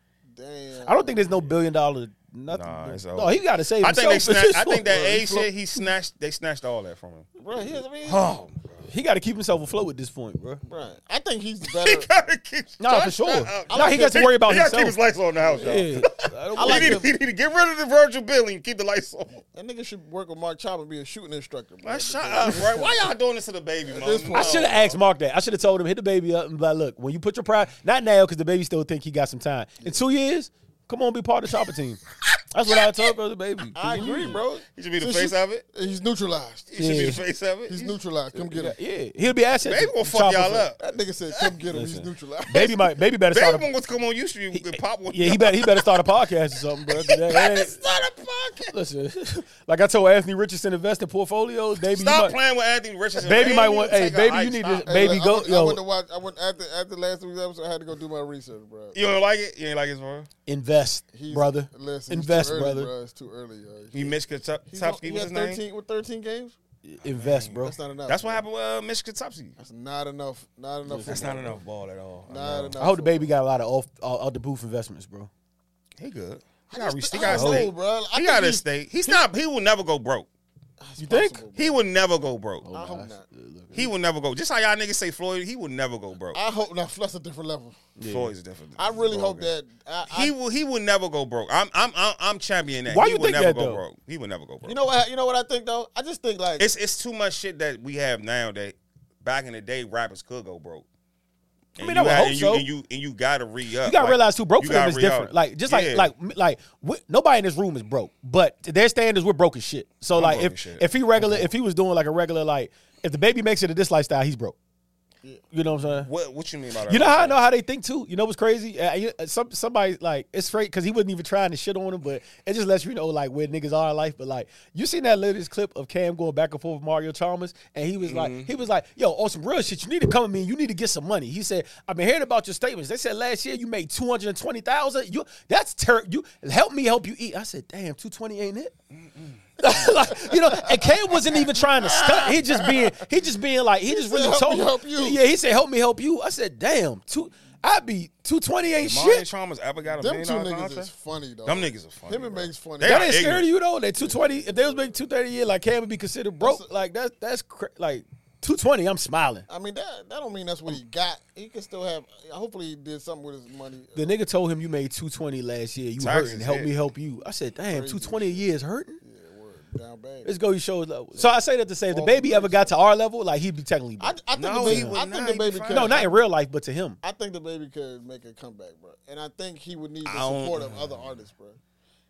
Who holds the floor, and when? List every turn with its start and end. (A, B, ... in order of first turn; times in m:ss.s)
0:00.3-0:01.2 A
0:00.8-0:05.5 B
0:02.5-0:07.3 C
0:07.4-0:08.3 A
0:08.0-0:08.9 C
0:08.9-0:10.6 B
0:10.6-0:12.1 A
0:11.6-0:19.4 C
0:12.8-0:15.0 B
0:13.7-0:14.3 A
0:15.4-0:15.9 A
0:15.6-0:17.1 B
0:16.6-0:17.1 A
0:19.5-0:23.1 A
0:21.8-0:25.0 C
0:23.8-0:24.8 A
0:24.3-0:34.4 B
0:33.8-0:37.1 A
0:34.8-0:35.6 C
0:36.7-0:38.0 C
0:36.8-0:37.2 B
0:37.7-0:38.8 A
0:38.3-0:40.7 B
0:39.6-0:40.8 C
0:40.8-0:43.0 A
0:41.7-0:43.7 B
0:43.3-0:46.0 C
0:44.5-0:47.8 B
0:46.9-0:48.7 C
0:48.7-0:52.4 B
0:51.9-0:55.2 C
0:53.2-0:55.8 B
0:54.9-0:59.0 A
0:58.9-1:00.3 C
1:00.5-1:02.9 B
1:01.1-1:04.2 A
1:03.9-1:05.6 C
1:04.7-1:06.6 A
1:06.8-1:07.8 B
1:07.0-1:09.6 C
1:07.6-1:08.4 A
1:09.6-1:11.6 A
1:10.9-1:11.2 B
1:11.1-1:12.8 C
1:12.3-1:13.3 A
1:12.8-1:15.3 B
1:16.0-1:20.3 C
1:16.7-1:19.2 A
1:17.2-1:17.7 B
1:20.8-1:21.8 A
1:21.0-1:21.4 B
1:21.6-1:22.7 C
1:22.6-1:23.9 B
1:22.7-1:23.2 A
1:23.7-1:26.4 C
1:26.3-1:27.8 A
1:28.0-1:28.3 B
1:28.1-1:29.5 C
1:28.8-1:30.3 A
1:30.1-1:34.8 C
1:32.9-1:33.8 B
1:34.6-1:36.7 A
1:36.6-1:40.9 C
1:41.8-1:46.1 C
1:41.8-1:42.7 B
1:43.8-1:54.6 B
1:50.1-1:51.5 C
1:55.5-1:56.1 B
1:56.0-1:57.4 C
1:56.9-2:18.7 B
2:08.0-2:08.5 C
2:18.9-2:19.4 C
2:19.6-2:29.2 B
2:20.2-2:23.0 A
2:23.9-2:25.2 A
2:28.8-2:30.9 C
2:29.9-2:33.2 A
2:31.4-2:33.5 C
2:32.8-2:39.5 B
2:34.0-2:35.0 A
2:36.4-2:36.7 A
2:39.5-2:44.1 A
2:44.0-2:49.0 B
2:46.0-2:46.7 C
2:47.7-2:48.4 A
2:49.0-2:50.4 A
2:50.2-2:55.0 B
2:51.9-2:52.8 A
2:54.0-2:56.1 A
2:54.3-2:56.1 C
2:55.7-2:57.0 B
2:57.0-3:01.6 A
3:00.0-3:00.7 C